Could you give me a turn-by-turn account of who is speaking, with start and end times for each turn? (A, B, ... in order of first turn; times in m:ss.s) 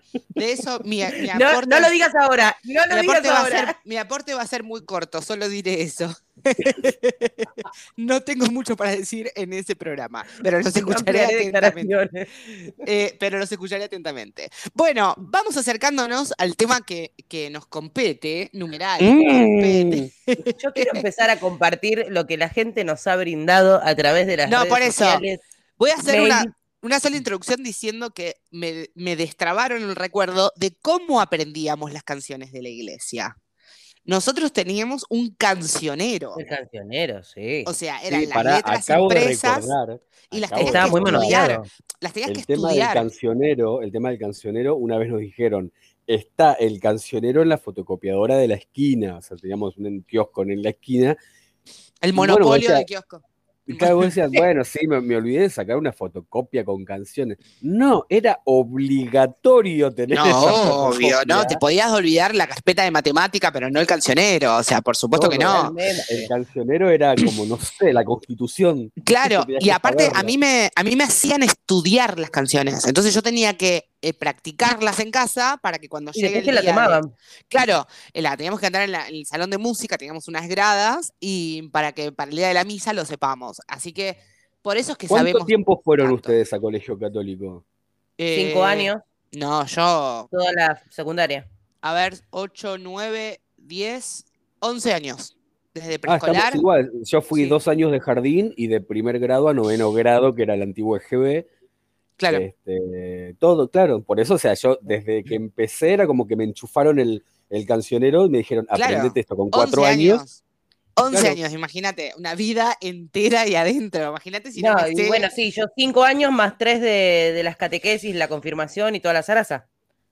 0:00.4-0:01.9 A
0:01.3-0:03.7 B
0:02.9-0:11.9 A
0:10.8-0:12.6 B
0:12.8-0:21.0 A
0:19.0-0:20.1 C
0:20.5-0:25.4 B
0:24.4-0:25.2 A
0:25.8-0:33.3 A
0:26.0-0:26.5 B
0:34.0-0:36.4 A
0:36.3-0:37.7 B
0:37.6-0:39.7 A
0:38.1-0:41.4 C
0:40.3-0:43.1 A
0:40.6-0:41.7 B
0:42.3-0:51.2 C
0:52.0-0:54.1 A
0:52.1-0:52.8 C
0:53.7-1:01.6 C
1:00.1-1:05.7 A
1:05.1-1:10.3 C
1:05.2-1:06.3 B
1:09.0-1:26.3 A
1:16.1-1:17.1 B
1:25.1-1:27.6 C
1:28.2-1:30.3 A
1:28.3-1:29.0 B
1:30.3-1:31.4 B
1:31.8-1:36.6 A
1:36.1-1:41.5 C
1:42.2-1:42.4 A
1:42.3-1:50.2 C
1:48.7-1:50.4 A
1:51.0-1:55.3 A
1:51.1-1:51.4 C
1:54.5-1:59.6 B